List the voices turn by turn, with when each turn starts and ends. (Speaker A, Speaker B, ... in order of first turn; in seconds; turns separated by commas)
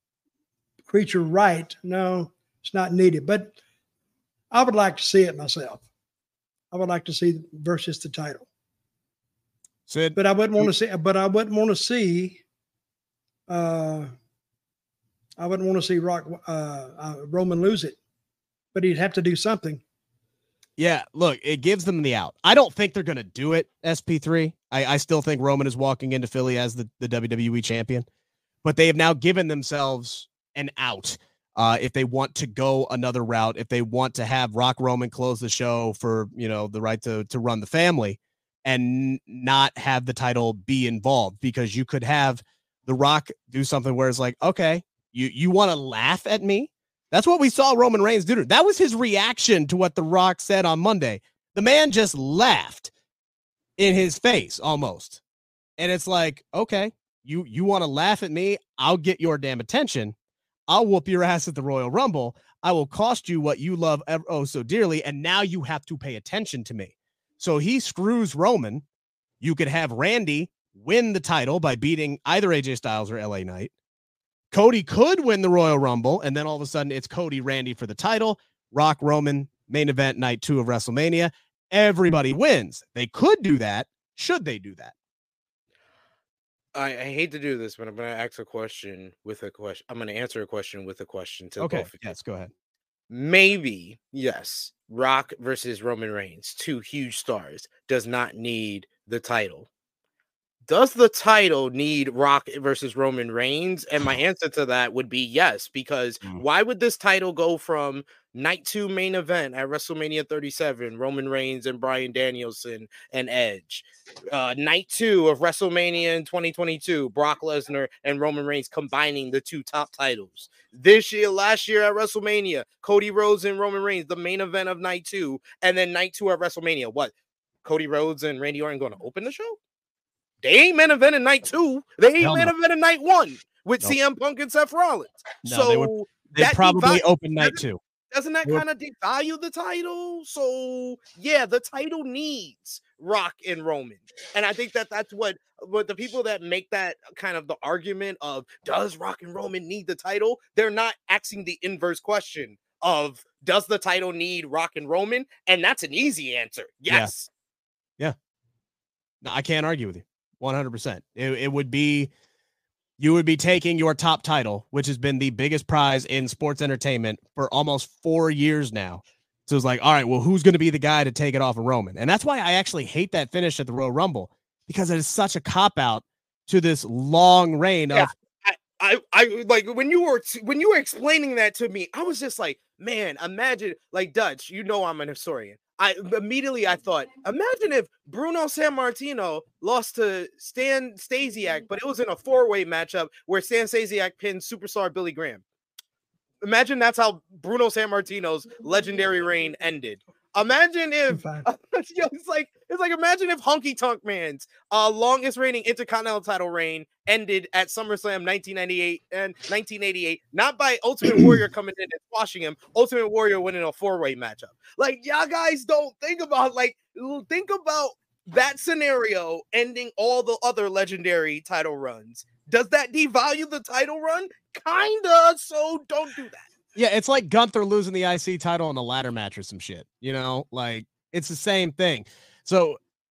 Speaker A: 0.9-3.5, Speaker A: 4.5-5.8, Speaker A: 6.7-8.5, Speaker B: 9.9-10.7, Speaker A: 10.2-12.4, Speaker A: 13.5-14.1, Speaker A: 15.4-18.0, Speaker A: 18.7-19.8, Speaker B: 20.8-28.1, Speaker B: 28.6-52.9, Speaker B: 53.8-55.2, Speaker B: 55.8-60.1, Speaker B: 60.7-68.8, Speaker B: 69.4-73.7, Speaker B: 74.5-84.9, Speaker C: 86.7-91.9, Speaker B: 91.6-92.5, Speaker C: 93.1-99.7, Speaker C: 100.7-127.1, Speaker C: 127.6-129.6, Speaker C: 130.4-157.3, Speaker B: 132.2-132.5, Speaker B: 135.4-137.8, Speaker B: 159.2-162.1, Speaker B: 163.0-178.1, Speaker C: 177.9-195.4, Speaker C: 196.4-226.5, Speaker A: 201.1-201.4, Speaker B: 226.7-232.8